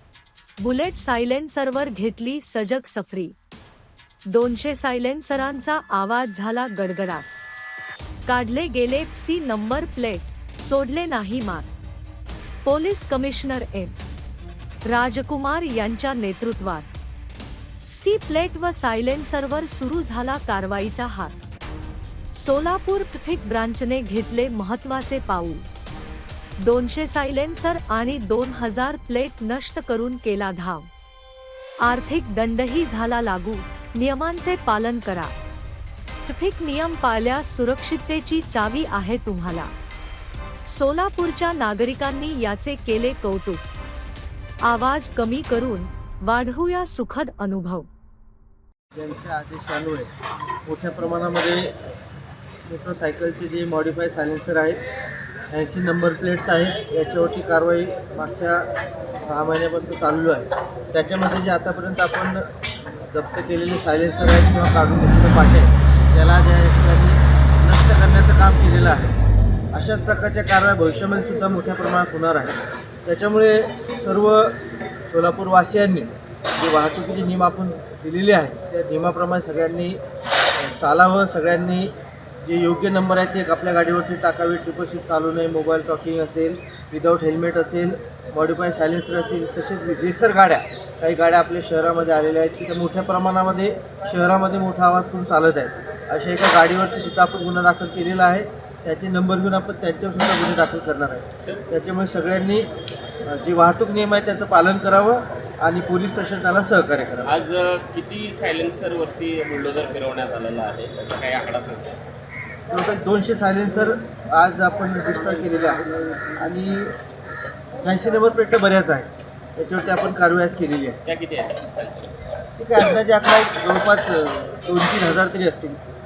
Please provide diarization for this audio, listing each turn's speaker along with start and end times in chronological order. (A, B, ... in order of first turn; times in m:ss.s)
0:00.6-0:03.3 A
0:04.3-0:07.3 A
0:08.2-0:11.7 A
0:12.6-0:13.9 A
0:14.8-0:16.9 A
0:17.9-0:21.3 A
0:22.3-0:25.6 A
0:26.6-0:30.9 A
0:31.8-0:35.3 A
0:36.2-0:39.7 A
0:40.7-0:43.6 A
0:44.6-0:47.9 A
0:48.9-0:50.1 B
0:50.6-0:51.7 B
0:52.7-0:54.8 B
0:55.5-0:58.6 B
0:59.2-1:02.4 B
1:03.1-1:09.2 B
1:09.7-1:20.0 B
1:20.6-1:21.9 B
1:22.4-1:42.7 B
1:43.2-1:47.3 B
1:47.2-1:52.0 C
1:52.7-1:56.9 B
1:57.8-2:01.0 B
2:01.0-2:02.1 C
2:02.6-2:05.8 B